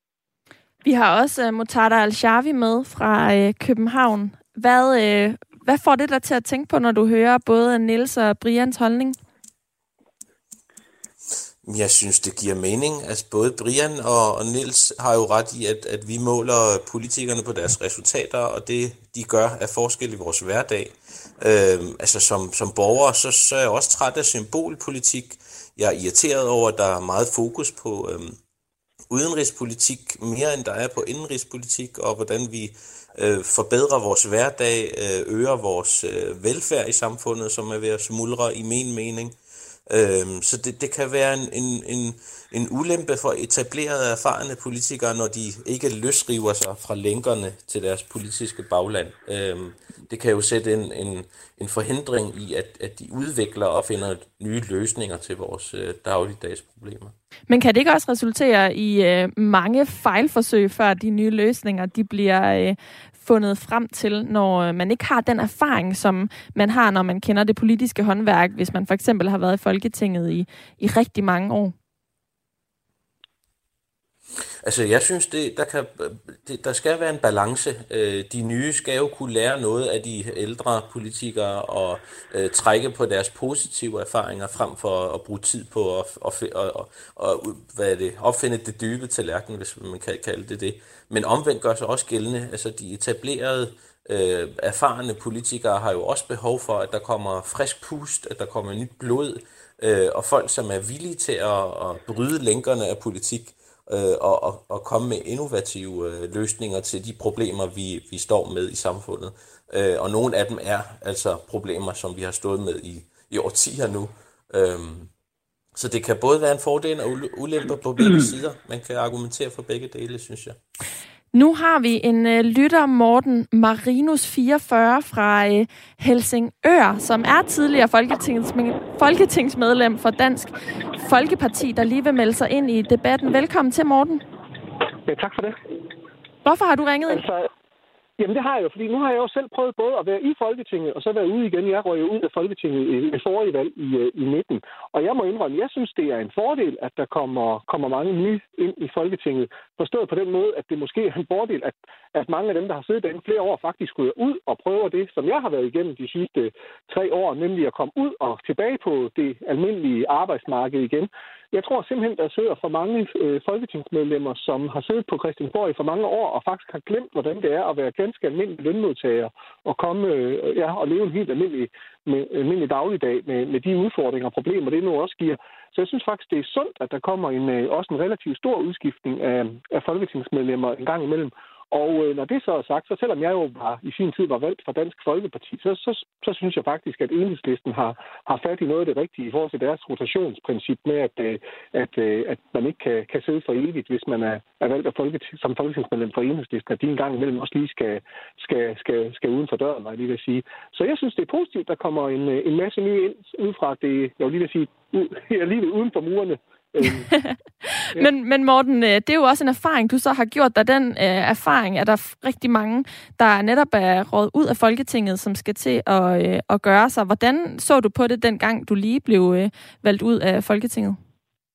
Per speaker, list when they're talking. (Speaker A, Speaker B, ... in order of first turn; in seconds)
Speaker A: 0.8-9.2, 57.5-71.7, 121.3-134.2, 136.4-137.2, 207.1-221.0
Speaker B: 11.6-28.4, 29.1-39.4, 39.9-57.1, 74.6-115.1, 115.8-120.6
Speaker C: 135.1-135.6, 137.1-137.5, 138.2-207.1